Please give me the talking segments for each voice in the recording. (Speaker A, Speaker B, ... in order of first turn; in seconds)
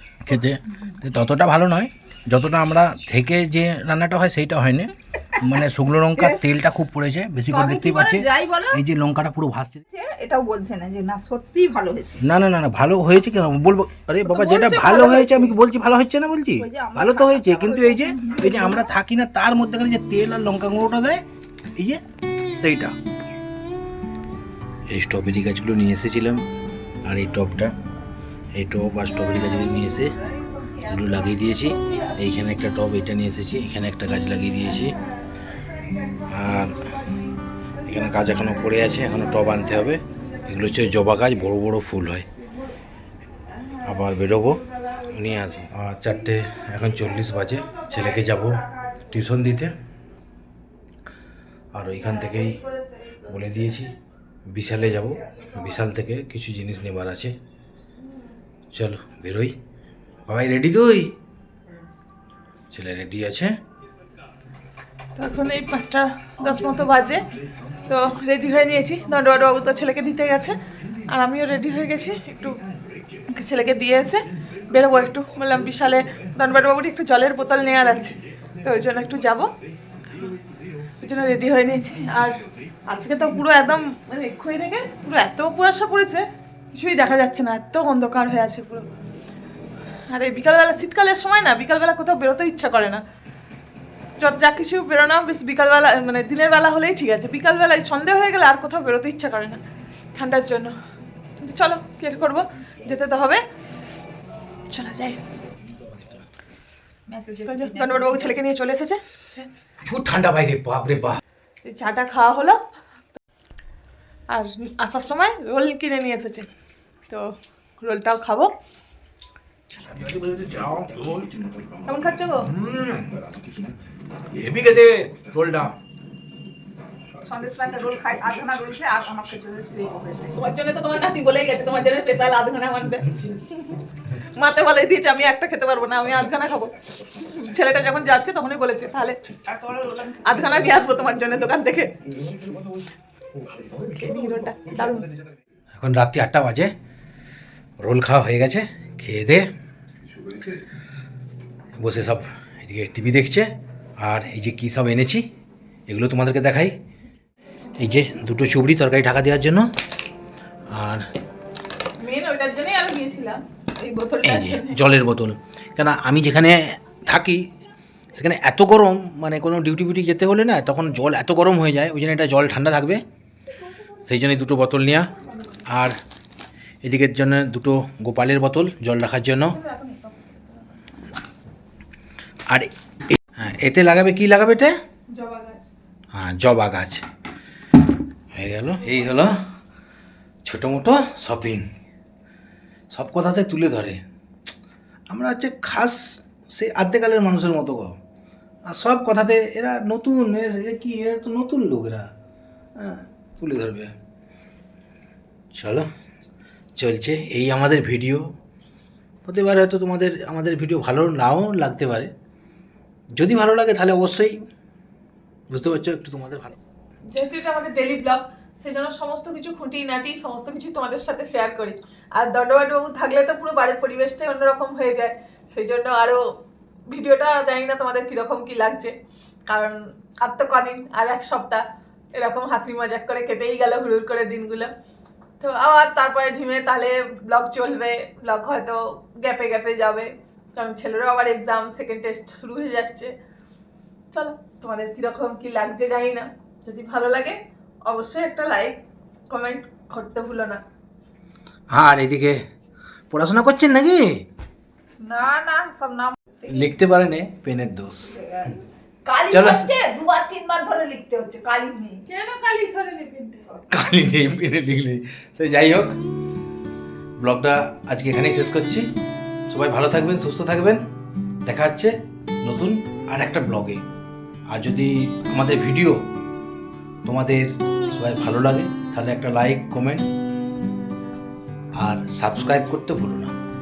Speaker A: 0.2-9.8, 12.2-21.2, 22.6-22.9, 24.9-26.4, 27.0-27.7, 28.6-30.1, 30.8-34.9, 36.3-37.0, 37.8-42.2, 43.8-49.7, 51.7-52.6, 53.2-54.0, 54.5-57.3, 58.7-59.5, 60.2-61.1, 62.7-63.5, 109.8-111.2, 119.7-121.6, 122.5-123.1, 124.3-125.7, 145.7-146.7, 147.8-149.5, 151.8-153.5, 154.0-155.2, 155.9-156.7, 157.8-159.7, 160.7-161.1, 164.2-167.5, 168.1-173.0, 174.1-175.1, 175.7-176.0, 176.8-179.6, 182.5-184.7, 186.1-187.0, 188.3-189.4, 190.4-191.6, 192.9-194.0, 195.1-197.9, 198.7-202.1, 202.8-203.9, 205.5-205.9, 206.8-208.2, 209.2-212.1, 213.2-214.4, 215.5-216.6, 251.7-252.4, 253.1-254.1, 256.5-258.2, 259.3-259.7, 263.7-266.0, 267.2-268.9, 269.5-270.8, 271.4-273.8, 274.5-276.0, 277.0-280.1, 281.8-283.3
Speaker B: 7.5-8.8, 9.9-12.2, 16.6-18.8, 107.1-108.4, 127.2-130.3, 255.0-256.6, 258.1-262.0
Speaker C: 14.3-15.5, 52.8-53.1, 65.2-67.2, 67.8-70.5, 71.0-72.6, 73.3-79.5, 81.0-88.8, 90.1-93.0, 94.2-99.6, 100.1-100.7, 101.4-103.4, 104.7-105.2, 107.4-109.5, 111.6-112.6, 114.3-116.5, 117.1-118.5, 121.8-122.5, 130.3-133.2, 134.3-139.2, 139.7-141.9, 143.7-145.1, 162.0-164.8, 179.5-180.7, 185.1-185.7, 217.1-226.3, 226.9-228.9, 229.5-231.6, 232.1-234.7, 235.4-243.1, 244.1-250.6, 262.1-263.6